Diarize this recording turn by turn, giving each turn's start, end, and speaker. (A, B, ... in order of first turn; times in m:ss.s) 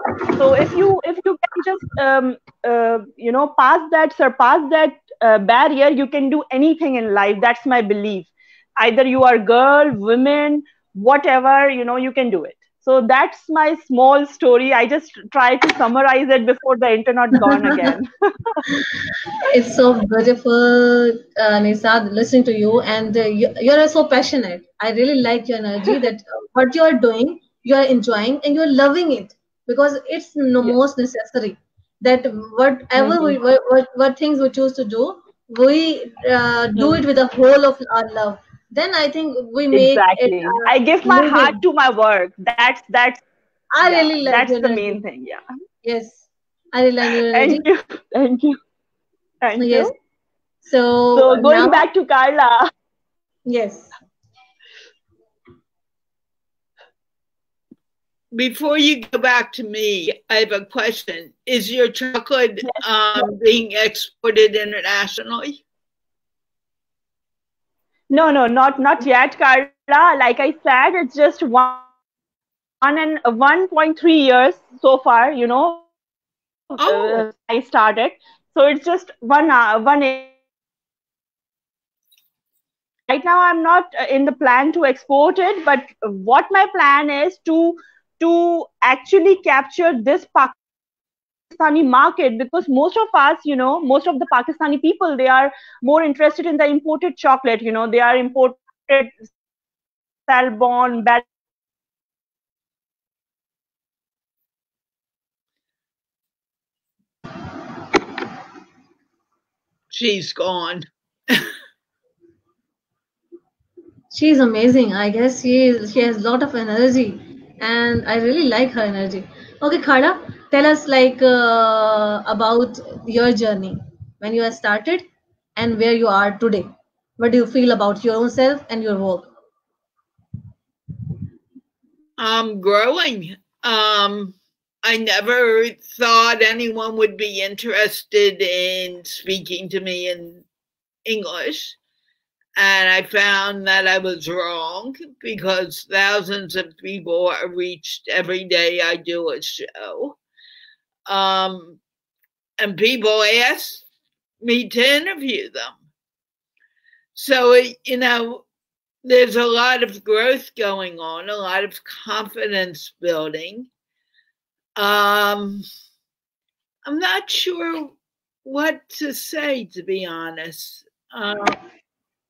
0:00.4-0:18.6 A
0:17.4-0:17.9 B
0:19.4-0:41.6 B
0:33.0-0:33.4 A
0:36.8-0:37.0 A
0:39.7-0:43.2 A
0:43.7-0:45.0 B
0:43.8-0:45.4 A
0:45.8-0:47.6 B
0:47.3-0:48.6 A
0:49.4-0:49.9 A
0:49.6-0:49.9 B
0:50.6-0:51.8 B
0:51.1-0:52.7 A
0:53.4-0:53.9 B
0:58.3-1:05.6 C
1:02.6-1:03.3 A
1:08.1-1:11.8 A
1:12.8-1:15.8 A
1:16.7-1:20.3 A
1:16.8-1:17.2 C
1:23.1-1:30.6 A
1:31.5-1:39.1 A
1:40.3-1:41.2 A
1:49.9-1:51.5 C
1:54.1-2:05.0 B
2:05.6-2:09.3 B
2:12.2-2:20.4 C
2:21.0-2:21.8 C
2:22.6-2:30.2 C
2:31.1-2:31.8 C
2:32.6-2:33.8 C
2:34.4-2:35.8 C
2:37.1-2:38.4 C
2:39.0-2:43.7 C
2:44.8-2:45.6 C
2:46.8-2:51.6 C